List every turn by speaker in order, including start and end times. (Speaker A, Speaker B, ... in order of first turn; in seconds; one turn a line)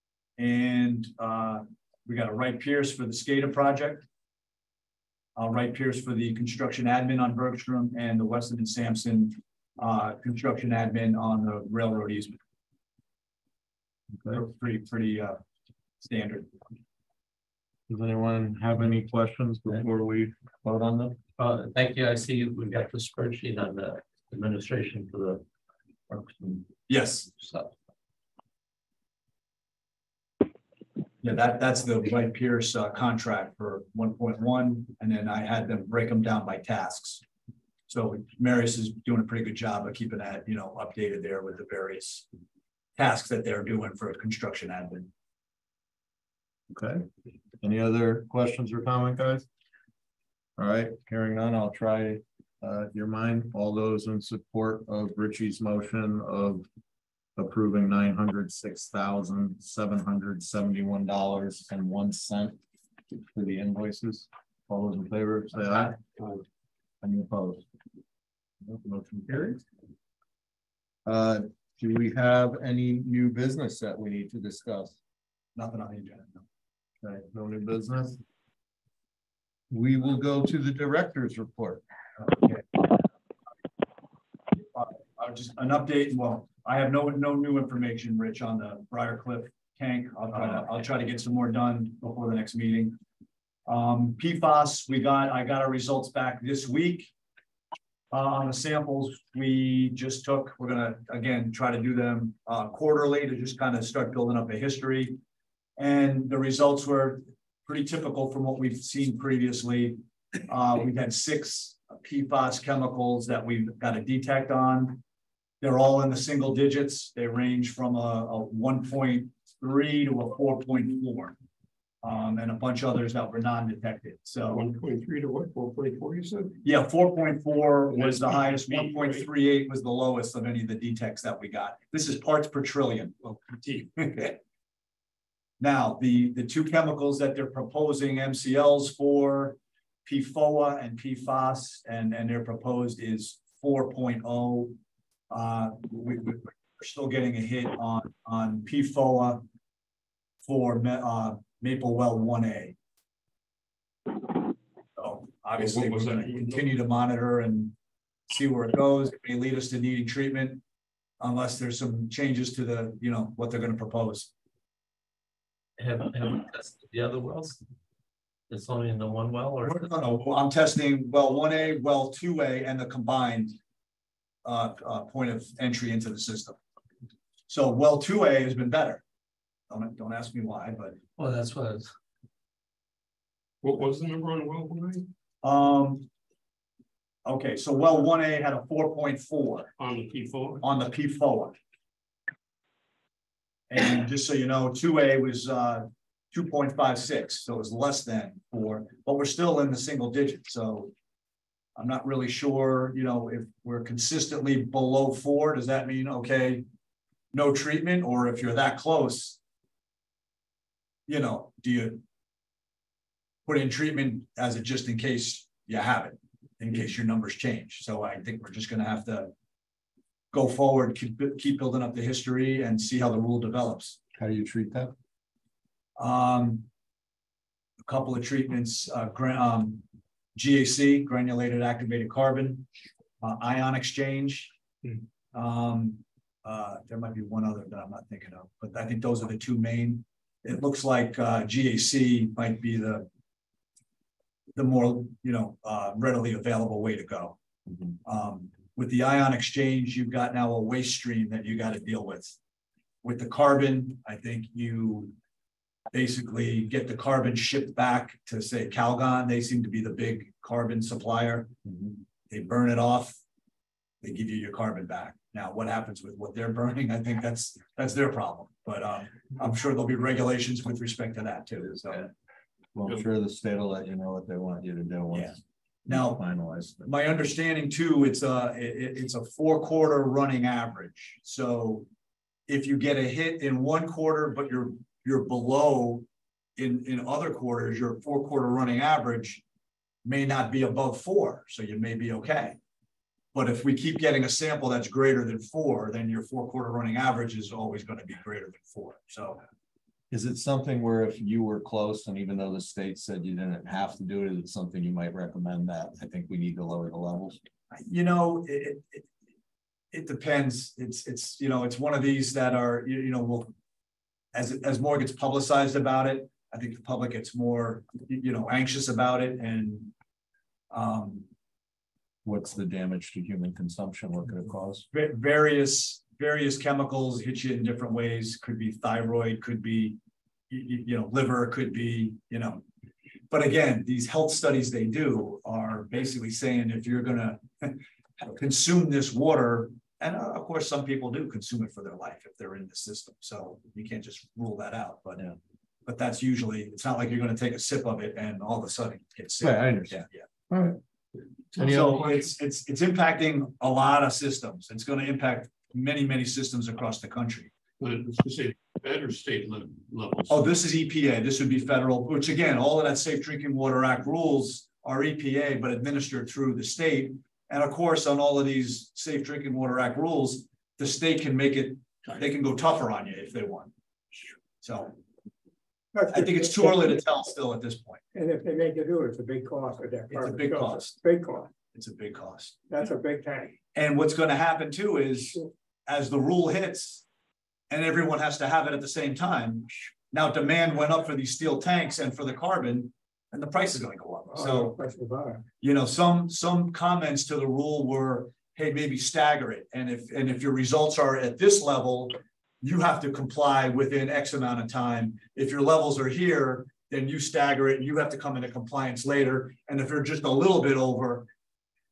Speaker A: 0.4-4.0
Speaker A: 5.3-12.4
Speaker B: 14.1-14.4
Speaker A: 14.3-15.4
Speaker A: 16.0-16.5
Speaker B: 17.9-21.2
Speaker C: 21.4-25.4
Speaker C: 26.1-26.7
Speaker A: 26.9-27.3
Speaker C: 27.4-27.7
Speaker A: 31.2-37.2
Speaker A: 37.9-42.2
Speaker A: 43.0-45.1
Speaker B: 46.7-47.0
Speaker B: 47.6-49.5
Speaker B: 50.6-56.7
Speaker B: 57.4-62.6
Speaker B: 63.1-66.3
Speaker B: 67.0-67.6
Speaker B: 68.6-69.6
Speaker B: 71.0-75.0
Speaker A: 75.5-76.4
Speaker B: 77.0-78.2
Speaker B: 79.7-81.8
Speaker A: 82.2-82.8
Speaker A: 84.7-93.0
Speaker A: 93.7-97.1
Speaker A: 98.1-105.2
Speaker A: 105.8-115.0
Speaker A: 115.6-121.4
Speaker A: 122.0-124.7
Speaker D: 124.5-126.6
Speaker A: 126.6-133.2
Speaker D: 127.9-129.3
Speaker D: 133.2-133.9
Speaker A: 134.0-134.4
Speaker A: 135.6-144.8
Speaker A: 145.3-149.4
Speaker A: 150.4-152.7
Speaker A: 155.0-157.7
Speaker D: 155.6-156.7
Speaker A: 158.3-160.6
Speaker A: 161.2-164.3
Speaker C: 165.8-167.6
Speaker C: 168.5-169.9
Speaker A: 169.6-173.6
Speaker A: 174.4-176.6
Speaker A: 177.5-179.0
Speaker A: 179.7-181.0
Speaker C: 181.2-181.9
Speaker D: 183.6-185.1
Speaker A: 185.4-186.1
Speaker A: 187.2-189.7
Speaker D: 189.8-190.6
Speaker A: 190.6-191.6
Speaker A: 193.7-200.9
Speaker A: 201.8-206.6
Speaker A: 207.3-209.4
Speaker A: 211.1-212.0
Speaker A: 213.4-219.3
Speaker A: 220.3-224.0
Speaker B: 224.1-224.9
Speaker A: 226.0-226.7
Speaker A: 227.8-229.8
Speaker A: 230.3-232.7
Speaker A: 233.2-234.5
Speaker A: 235.3-243.1
Speaker A: 244.6-247.4
Speaker A: 248.0-252.3
Speaker A: 253.0-255.1
Speaker A: 255.9-261.5
Speaker B: 261.7-261.9
Speaker A: 262.3-263.2
Speaker A: 264.0-272.1
Speaker B: 272.7-276.9
Speaker A: 275.9-276.2
Speaker A: 276.8-281.9
Speaker A: 282.5-286.1
Speaker A: 286.6-289.4
Speaker A: 290.0-292.6
Speaker A: 293.3-299.4
Speaker B: 300.1-307.4
Speaker A: 307.7-309.1
Speaker A: 309.9-313.5
Speaker A: 314.3-319.9
Speaker A: 320.7-321.3
Speaker B: 322.2-324.9
Speaker A: 324.9-330.0
Speaker A: 330.5-332.6
Speaker A: 333.3-345.2
Speaker A: 345.9-350.2
Speaker B: 349.4-350.8
Speaker D: 351.5-352.2
Speaker B: 351.6-352.2
Speaker A: 351.6-357.5
Speaker D: 357.8-360.4
Speaker A: 360.3-373.7
Speaker A: 374.6-374.9
Speaker E: 375.9-377.0
Speaker A: 376.1-378.0
Speaker E: 378.1-381.5
Speaker A: 380.1-381.0
Speaker A: 381.7-382.6
Speaker E: 382.7-383.6
Speaker A: 383.7-387.0
Speaker A: 387.7-394.8
Speaker E: 394.3-395.4
Speaker A: 395.6-411.3